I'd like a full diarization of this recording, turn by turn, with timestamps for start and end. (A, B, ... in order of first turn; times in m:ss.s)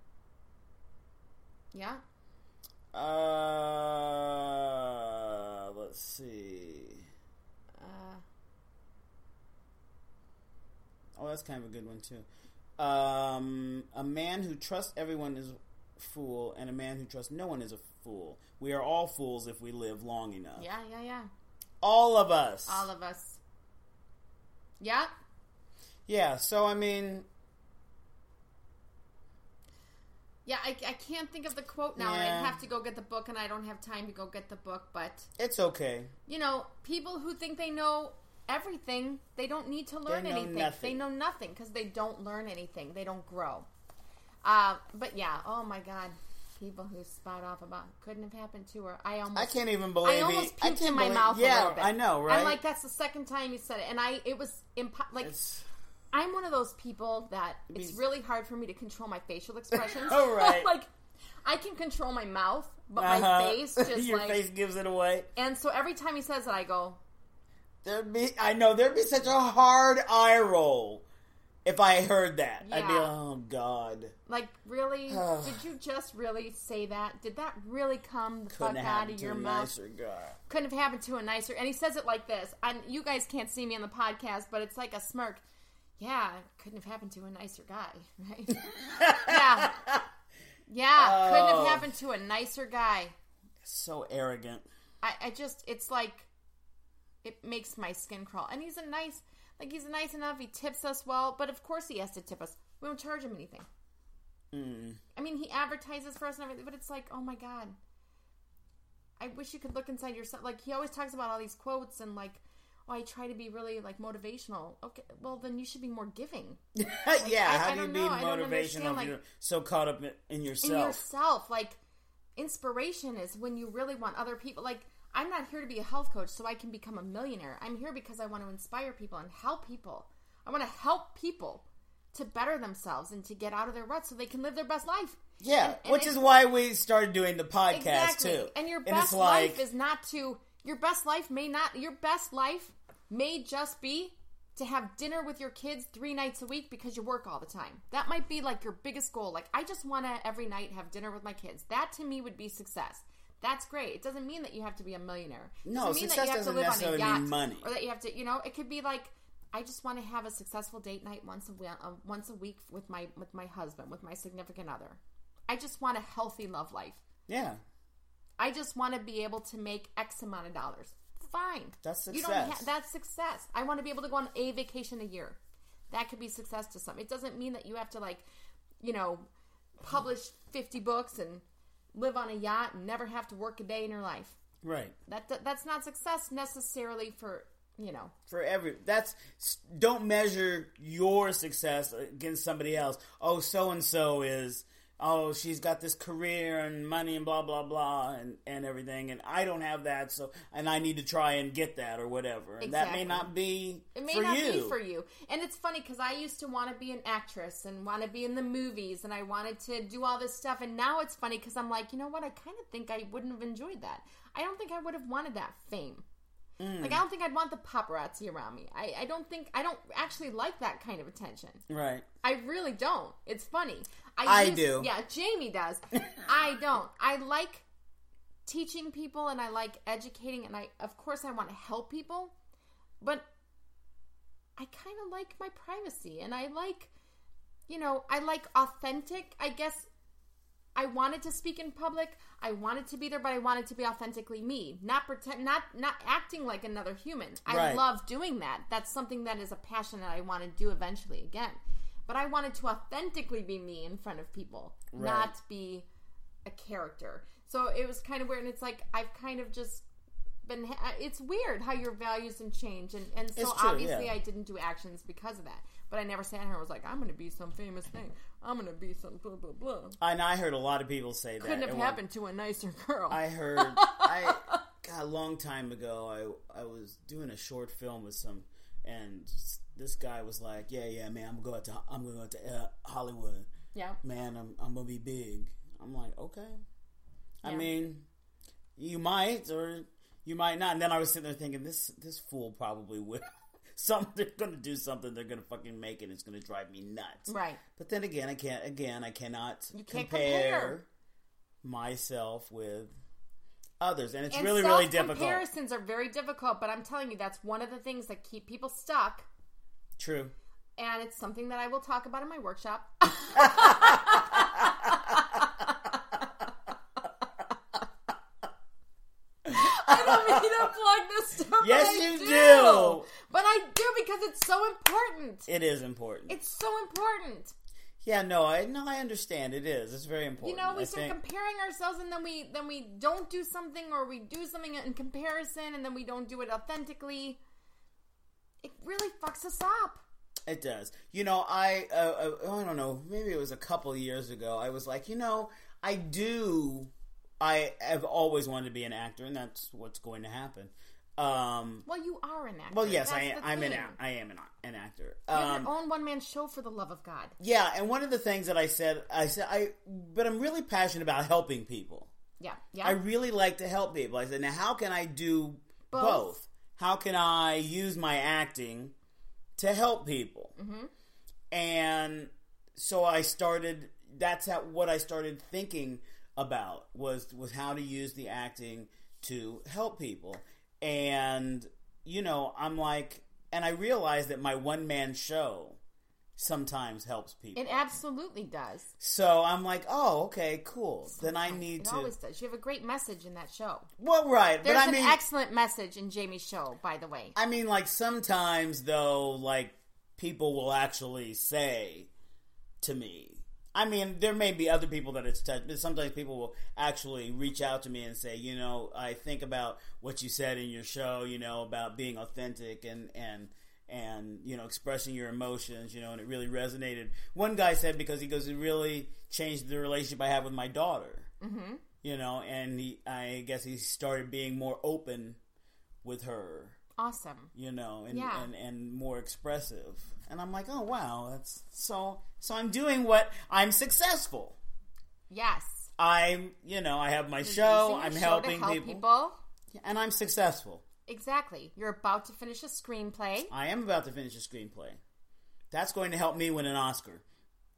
0:01.7-0:02.0 A
0:02.9-0:07.0 B
0:07.8-0:08.2 A
0:11.2-0:12.2 B
0:12.8-0:20.6 B
0:20.6-0:21.3 A
0:21.8-0:22.9 B
0:22.7-0:23.4 A
0:24.8-0:25.1 A
0:26.1-0:27.2 B
0:30.4-0:35.3 A
0:32.0-0:32.6 B
0:35.4-0:36.1 B
0:36.3-0:43.7 A
0:40.1-0:41.0 B
0:44.4-0:55.3 A
0:49.3-0:52.6 B
0:55.2-0:55.6 B
0:56.1-1:00.9 A
0:57.7-0:58.0 B
0:59.7-1:00.7 B
1:01.4-1:04.4 A
1:03.0-1:05.3 B
1:05.4-1:07.0 A
1:07.8-1:11.0 B
1:11.6-1:14.1 B
1:12.6-1:13.2 A
1:14.3-1:19.7 A
1:15.1-1:15.6 B
1:18.5-1:20.4 B
1:20.5-1:25.4 A
1:26.0-1:29.8 A
1:28.6-1:30.0 B
1:30.7-1:33.2 A
1:30.9-1:31.9 B
1:33.6-1:34.6 B
1:35.0-1:36.3 A
1:37.2-1:43.7 A
1:44.5-1:45.0 B
1:45.2-1:47.8 A
1:49.2-1:56.6 A
1:56.8-2:01.0 B
1:57.2-1:59.2 A
2:00.6-2:01.8 A
2:02.4-2:16.2 A
2:15.4-2:19.6 B
2:17.7-2:47.0 A
2:35.6-2:37.7 B
2:47.3-2:47.6 B
2:48.4-2:55.4 A
2:51.8-2:52.7 B
2:55.9-2:58.2 A
2:58.8-2:59.3 A
2:59.8-3:04.4 A
3:04.6-3:04.9 B
3:05.1-3:08.1 A
3:08.3-3:24.8 B
3:22.6-3:23.3 A
3:23.9-3:36.0 A
3:36.6-3:37.0 B
3:36.8-3:41.6 A
3:41.7-3:42.0 B
3:42.2-3:47.6 A
3:44.2-3:44.9 B
3:48.4-3:52.3 A
3:54.6-3:56.9 A
3:57.7-3:59.9 A
4:00.8-4:15.8 A
4:07.4-4:07.8 B
4:14.9-4:15.3 B
4:16.4-4:19.8 A
4:20.4-4:30.0 A
4:23.4-4:24.2 B
4:30.0-4:32.0 B
4:31.4-4:34.6 A
4:33.1-4:43.5 B
4:43.7-4:44.0 A
4:44.0-4:46.6 B
4:47.4-4:48.0 B
4:47.4-4:47.7 A
4:48.8-5:00.8 B
4:57.3-4:57.6 A
4:59.7-5:00.8 A
5:01.6-5:02.9 B
5:03.8-5:05.4 B
5:04.3-5:09.3 A
5:10.0-5:10.3 B
5:10.8-5:16.2 A
5:13.4-5:15.1 B
5:19.4-5:20.6 B
5:19.5-5:25.5 A
5:21.6-5:23.1 B
5:25.5-5:26.4 B
5:26.3-5:27.5 A
5:28.0-5:31.2 B
5:30.4-5:37.4 A
5:38.6-5:40.0 A
5:40.5-5:51.8 B
5:51.8-5:54.0 A
5:52.7-5:55.7 B
5:55.3-5:57.4 A
5:57.4-6:02.1 B
6:02.4-6:03.0 A
6:02.8-6:08.9 B
6:05.9-6:06.4 A
6:09.6-6:10.5 B
6:10.6-6:10.9 A
6:11.5-6:25.8 B
6:26.4-6:27.8 B
6:27.6-6:28.9 A
6:29.0-6:32.1 B
6:31.1-6:33.9 A
6:34.0-6:35.2 B
6:34.6-6:37.3 A
6:37.3-6:42.1 B
6:42.8-7:01.3 B
7:01.4-7:01.8 A
7:02.0-7:05.4 B
7:06.0-7:06.8 B
7:07.0-7:07.5 A
7:07.5-7:14.6 B
7:08.1-7:08.5 A
7:15.3-7:15.9 A
7:16.0-7:19.0 B
7:17.4-7:19.4 A
7:19.7-7:20.8 B
7:21.1-7:23.5 A
7:23.5-7:25.0 B
7:25.7-7:27.2 B